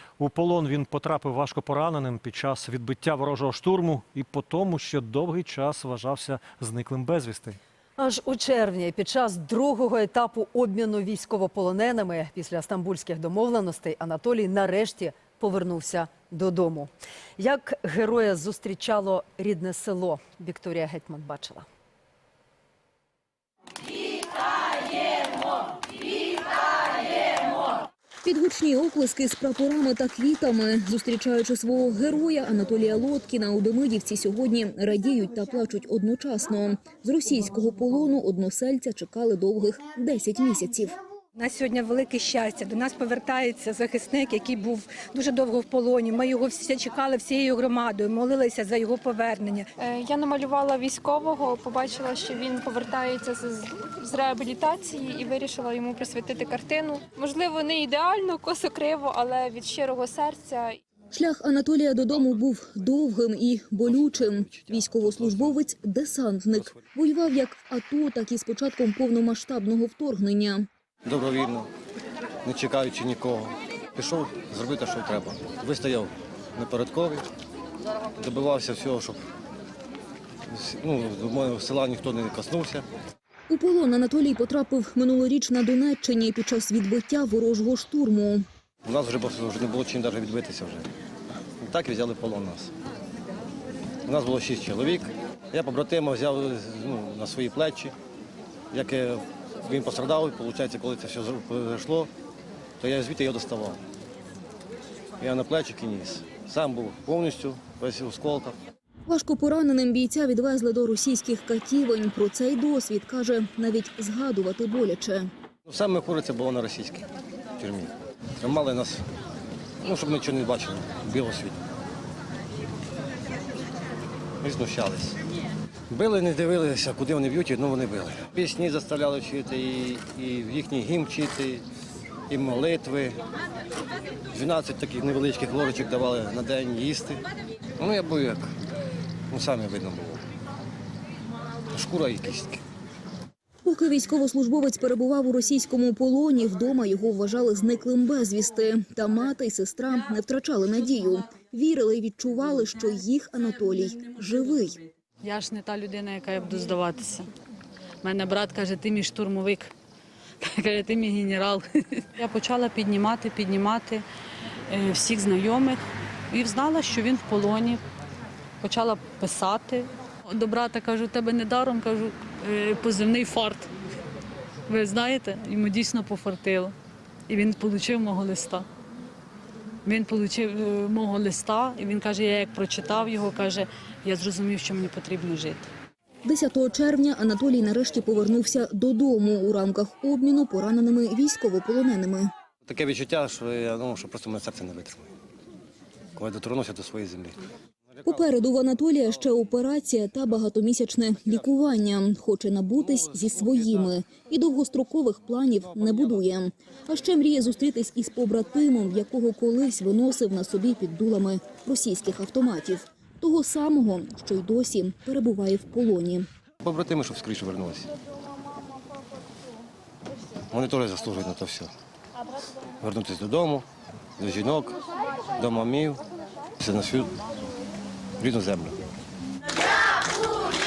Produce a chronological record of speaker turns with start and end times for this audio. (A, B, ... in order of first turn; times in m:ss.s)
0:00.2-0:07.6 A
0:08.0-0:21.7 B
0:28.2-0:41.0 C
0:41.4-0:49.7 D
0:49.8-1:00.8 E
1:01.1-1:10.7 C
1:03.8-1:05.6 F
1:11.0-1:11.7 F
1:12.4-1:17.3 F
1:18.2-1:19.3 F
1:20.5-1:22.9 F
1:23.5-1:28.4 C
1:28.8-1:30.9 F
1:31.6-1:32.7 F
1:34.0-1:38.0 F
1:38.7-1:42.1 F
1:42.8-1:43.8 F
1:45.2-1:48.6 F
1:49.1-1:55.3 C
1:55.7-1:57.1 F
1:57.6-1:59.0 F
1:59.8-2:01.6 F
2:04.4-2:05.2 F
2:05.9-2:11.6 F
2:12.3-2:13.2 F
2:14.3-2:17.2 F
2:17.8-2:18.5 F
2:19.3-2:20.2 F
2:21.7-2:22.6 F
2:23.6-2:34.8 C
2:35.2-2:37.3 G
2:38.0-2:39.7 G
2:40.4-2:44.1 G
2:44.7-2:47.8 G
2:48.6-2:53.7 G
2:54.7-2:56.8 G
2:57.3-2:58.7 G
2:59.8-3:05.7 G
3:06.2-3:12.3 C
3:12.6-3:15.1 F
3:16.1-3:17.4 F
3:18.0-3:36.2 C
3:36.6-3:37.9 F
3:40.5-3:41.7 F
3:42.8-3:43.7 F
3:44.2-3:44.8 F
3:45.4-3:46.0 F
3:46.6-3:47.2 F
3:48.2-3:48.8 F